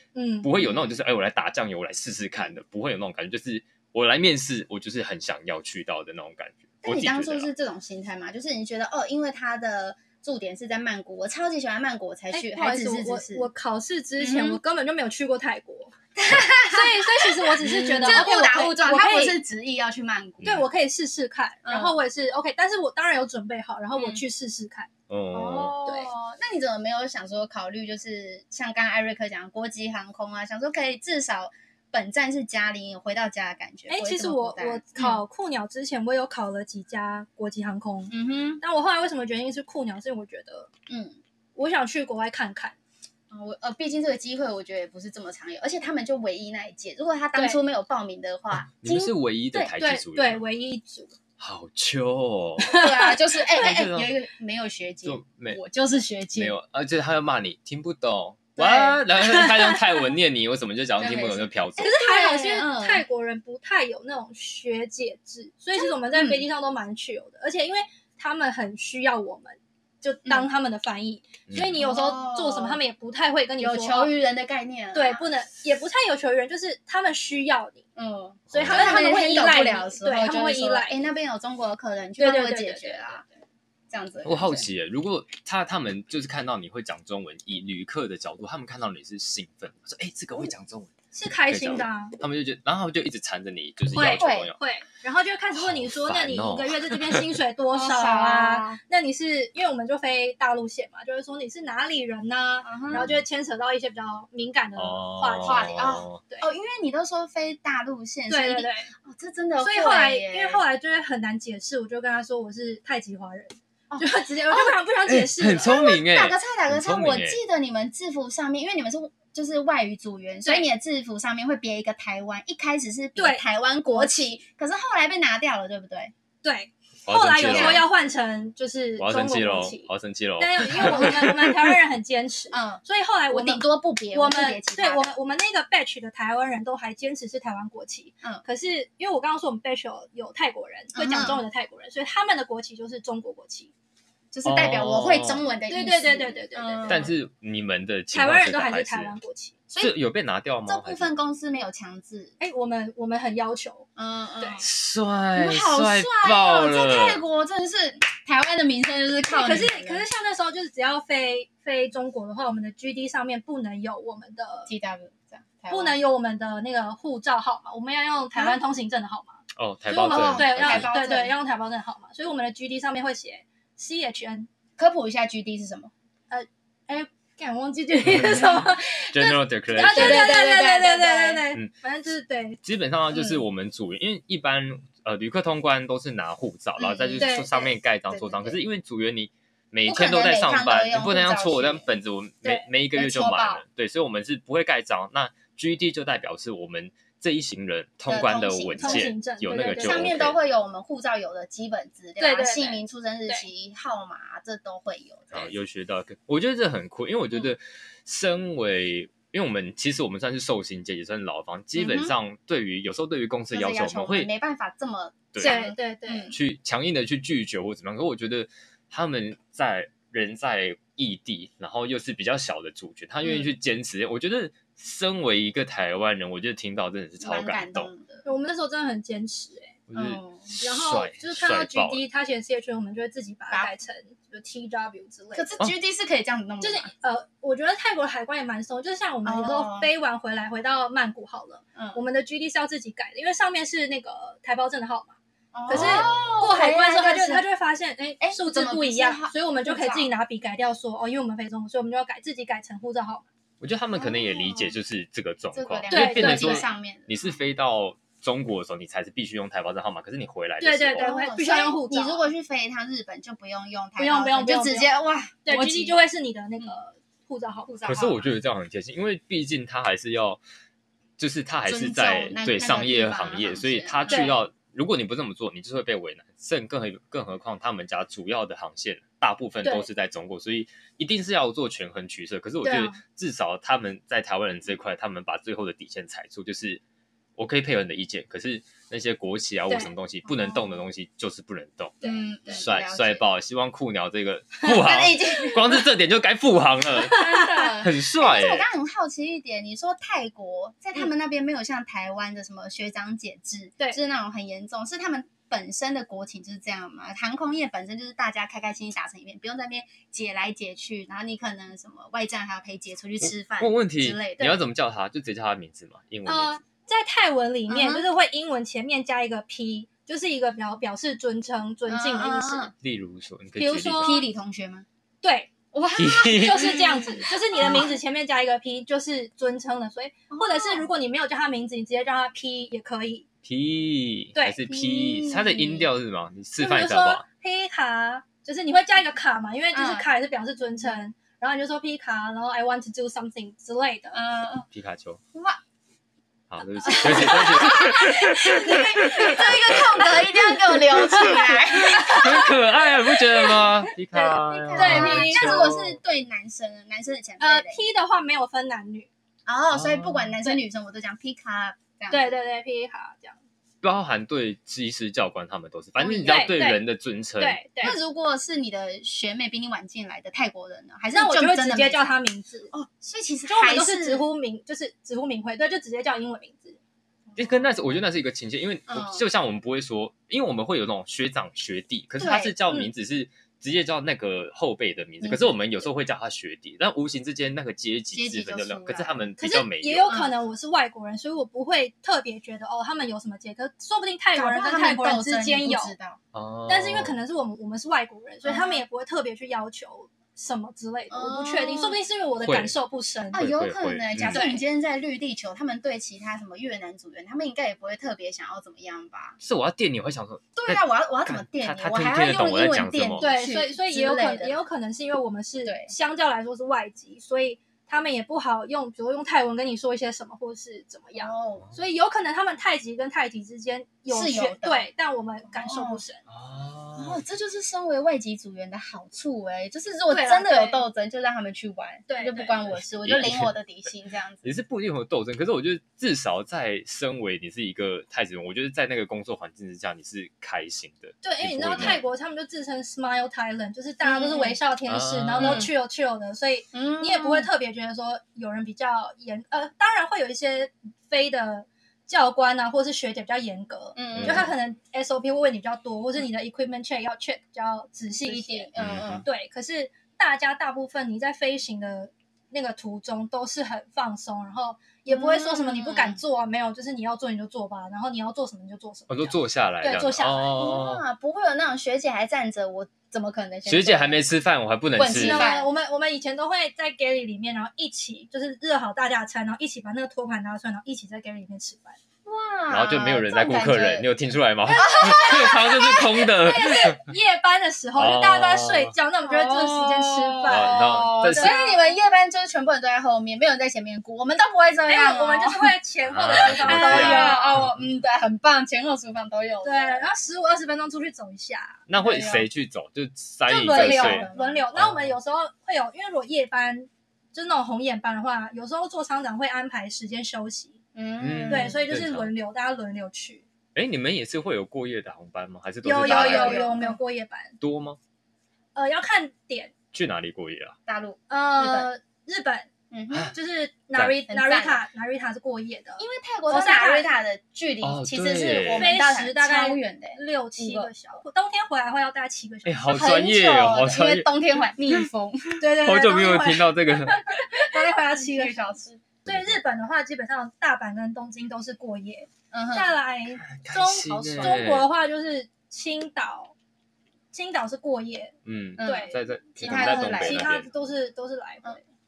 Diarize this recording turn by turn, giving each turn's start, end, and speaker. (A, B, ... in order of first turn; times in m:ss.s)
0:00.1-0:00.5 A
0:00.4-0:07.5 B
0:00.6-0:01.0 C
0:06.8-0:13.5 C
0:12.3-0:15.9 A
0:14.2-0:14.6 C
0:16.2-0:20.5 C
0:16.7-0:19.4 A
0:20.4-0:24.9 A
0:21.6-0:22.0 C
0:23.9-0:24.2 C
0:25.1-0:25.8 B
0:25.3-0:35.2 C
0:25.8-0:26.1 A
0:33.9-0:40.7 A
0:38.1-0:38.6 C
0:40.9-0:41.2 C
0:41.6-0:42.8 A
0:43.3-0:49.7 C
0:48.7-0:50.4 B
0:49.8-0:51.1 A
0:51.4-0:52.8 B
0:52.6-0:53.2 A
0:52.7-0:56.6 C
0:53.6-0:54.1 B
0:55.0-0:55.6 B
0:56.3-1:01.9 B
0:58.6-0:59.5 C
0:59.3-0:59.8 A
1:01.0-1:03.0 C
1:01.8-1:14.1 A
1:05.8-1:06.4 C
1:11.5-1:11.8 B
1:11.8-1:12.8 C
1:13.6-1:15.2 C
1:14.9-1:17.8 A
1:18.0-1:23.3 C
1:18.5-1:19.0 B
1:18.6-1:21.1 A
1:22.2-1:23.2 A
1:23.9-1:24.7 C
1:24.2-1:30.9 B
1:31.1-1:32.2 A
1:31.5-1:34.6 B
1:33.9-1:46.5 A
1:34.0-1:34.5 C
1:35.6-1:37.3 B
1:37.7-1:38.8 C
1:42.6-1:43.1 C
1:42.9-1:43.2 B
1:44.8-1:46.2 B
1:45.4-1:50.6 C
1:48.3-1:48.9 A
1:49.6-1:55.8 A
1:53.9-1:54.8 C
1:55.1-1:57.4 B
1:55.6-2:06.1 C
2:03.2-2:04.4 A
2:06.4-2:23.7 A
2:07.0-2:07.9 B
2:07.4-2:07.8 C
2:09.0-2:11.7 B
2:10.8-2:11.1 C
2:12.5-2:15.1 C
2:20.9-2:21.4 C
2:24.3-2:27.1 C
2:24.4-2:25.4 B
2:25.7-2:27.1 A
2:26.9-2:29.1 B
2:28.1-2:29.6 A
2:29.7-2:29.9 C
2:29.8-2:31.1 B
2:30.6-2:32.3 C
2:32.4-2:33.8 A
2:34.0-2:34.7 C
2:34.6-2:37.2 B
2:35.3-2:40.0 C
2:39.3-2:44.7 A
2:44.7-2:46.0 C
2:45.7-2:54.5 A
2:49.6-2:50.9 B
2:50.1-2:51.3 C
2:54.8-2:55.9 C
2:56.3-3:02.6 A
2:58.1-2:58.4 B
2:59.1-3:00.3 B
2:59.8-3:01.4 C
3:02.6-3:20.4 B
3:03.1-3:03.4 C
3:06.8-3:08.6 C
3:07.2-3:07.5 A
3:09.8-3:11.9 C
3:12.9-3:13.6 C
3:18.1-3:19.1 C
3:18.8-3:20.1 A
3:19.7-3:25.5 C
3:22.2-3:23.4 A
3:25.3-3:34.3 B
3:31.7-3:32.1 C
3:33.5-3:36.3 C
3:35.3-3:35.6 B
3:35.4-3:36.3 A
3:36.3-3:47.9 B
3:47.2-3:48.2 C
3:48.2-3:49.8 A
3:49.9-3:52.0 B
3:49.9-3:50.5 C
3:50.6-3:55.5 A
3:55.3-3:56.9 C
3:56.6-4:05.2 A
3:59.2-3:59.9 C
4:01.7-4:02.0 C
4:05.5-4:07.4 C
4:05.7-4:13.2 A
4:05.7-4:06.4 B
4:08.2-4:10.1 C
4:13.6-4:21.1 B
4:13.9-4:14.7 C
4:15.5-4:17.4 C
4:15.9-4:16.7 A
4:20.6-4:22.3 A
4:21.0-4:26.0 C
4:24.0-4:24.9 A
4:25.4-4:27.7 A
4:27.7-4:28.3 C
4:27.8-4:30.4 B
4:31.2-4:46.8 B
4:31.7-4:34.4 C
4:34.1-4:34.4 A
4:39.6-4:39.9 A
4:42.6-4:43.0 A
4:47.4-4:58.7 B
4:50.2-4:50.7 C
4:52.0-4:52.6 A
4:52.0-4:53.2 C
4:54.6-4:55.8 C
4:57.0-4:57.7 A
4:57.0-5:14.6 C
5:13.2-5:16.5 B
5:16.2-5:22.7 A
5:17.7-5:18.1 C
5:21.9-5:22.7 C
5:22.8-5:24.2 B
5:23.6-5:24.2 A
5:24.0-5:24.8 C
5:25.2-5:25.5 A
5:25.7-5:27.9 C
5:26.0-5:26.8 B
5:26.1-5:33.2 A
5:30.3-5:30.9 C
5:33.4-5:37.2 B
5:34.3-5:34.6 A
5:34.7-5:35.9 C
5:36.6-5:44.2 A
5:39.7-5:40.1 C
5:44.1-5:44.7 C
5:44.7-5:45.2 B
5:45.3-5:45.6 C
5:46.5-5:50.3 B
5:46.8-5:52.5 C
5:46.8-5:52.5 A
5:51.2-5:56.0 B
5:53.3-5:55.8 A
5:54.4-5:57.8 C
5:57.4-5:59.1 A
5:59.4-6:02.4 C
5:59.7-6:00.3 B
6:02.1-6:03.4 A
6:03.8-6:07.8 B
6:06.0-6:06.8 A
6:07.4-6:08.0 A
6:07.8-6:14.2 C
6:11.1-6:12.7 A
6:13.5-6:16.8 A
6:17.3-6:17.9 C
6:17.4-6:30.1 B
6:18.9-6:19.2 C
6:22.2-6:22.5 C
6:22.2-6:22.9 A
6:25.2-6:25.8 C
6:28.1-6:29.2 C
6:29.4-6:35.9 A
6:30.1-6:30.3 C
6:34.4-6:36.2 C
6:36.3-6:37.1 B
6:36.7-6:43.5 A
6:38.4-6:38.8 C
6:41.1-6:42.0 C
6:42.4-6:42.7 B
6:43.3-6:49.4 C
6:43.4-6:44.5 B
6:44.3-6:44.6 A
6:49.4-6:53.2 B
6:50.6-6:54.6 C
6:53.2-7:06.2 A
6:55.6-6:55.9 C
7:01.1-7:01.7 C
7:04.1-7:04.9 C
7:05.4-7:06.0 C
7:06.3-7:07.2 B
7:07.0-7:14.5 C
7:10.1-7:10.8 A
7:12.1-7:12.6 A
7:12.7-7:13.5 B
7:14.4-7:22.0 B
7:21.2-7:38.7 A
7:24.0-7:24.6 C
7:24.9-7:25.7 B
7:25.4-7:25.7 C
7:26.7-7:27.5 C
7:34.0-7:34.5 C
7:34.1-7:34.5 B
7:38.2-7:39.2 C
7:38.8-7:39.2 B
7:39.2-7:50.5 A
7:45.1-7:46.2 C
7:49.1-7:51.0 B
7:50.5-7:54.2 C
7:53.6-7:55.5 B
7:55.0-7:55.7 C
7:55.2-8:02.0 A
8:02.2-8:04.1 C
8:02.7-8:07.0 B
8:04.7-8:12.0 A
8:04.8-8:06.8 C
8:07.9-8:08.9 B
8:09.2-8:15.7 C
8:10.4-8:11.6 B
8:14.9-8:17.6 A
8:16.0-8:17.7 B
8:16.4-8:20.0 C
8:19.6-8:21.8 A
8:21.9-8:25.1 B
8:22.0-8:22.5 C
8:23.5-8:30.8 A
8:23.6-8:24.6 C
8:30.9-8:31.8 C
8:31.2-8:32.3 B
8:31.5-8:33.4 A
8:33.7-8:36.8 B
8:35.8-8:37.6 A
8:36.0-8:37.0 C
8:37.6-8:38.0 B
8:38.7-8:39.7 A
8:39.9-8:40.8 B
8:40.9-8:41.9 C
8:41.3-8:42.7 A
8:42.9-8:43.3 C
8:43.3-8:47.1 A
8:44.2-8:44.8 C
8:46.0-8:51.1 C
8:47.8-8:49.0 B
8:48.7-8:53.0 A
8:52.6-8:54.3 B
8:52.9-8:55.6 C
8:55.6-8:58.6 A
8:55.6-8:57.4 B
8:57.9-8:59.1 C
8:59.2-8:59.6 B
8:59.2-9:06.5 A
9:02.5-9:03.0 C
9:03.5-9:04.9 B
9:04.1-9:04.7 C
9:07.3-9:11.8 A
9:08.4-9:10.9 B
9:08.8-9:10.5 C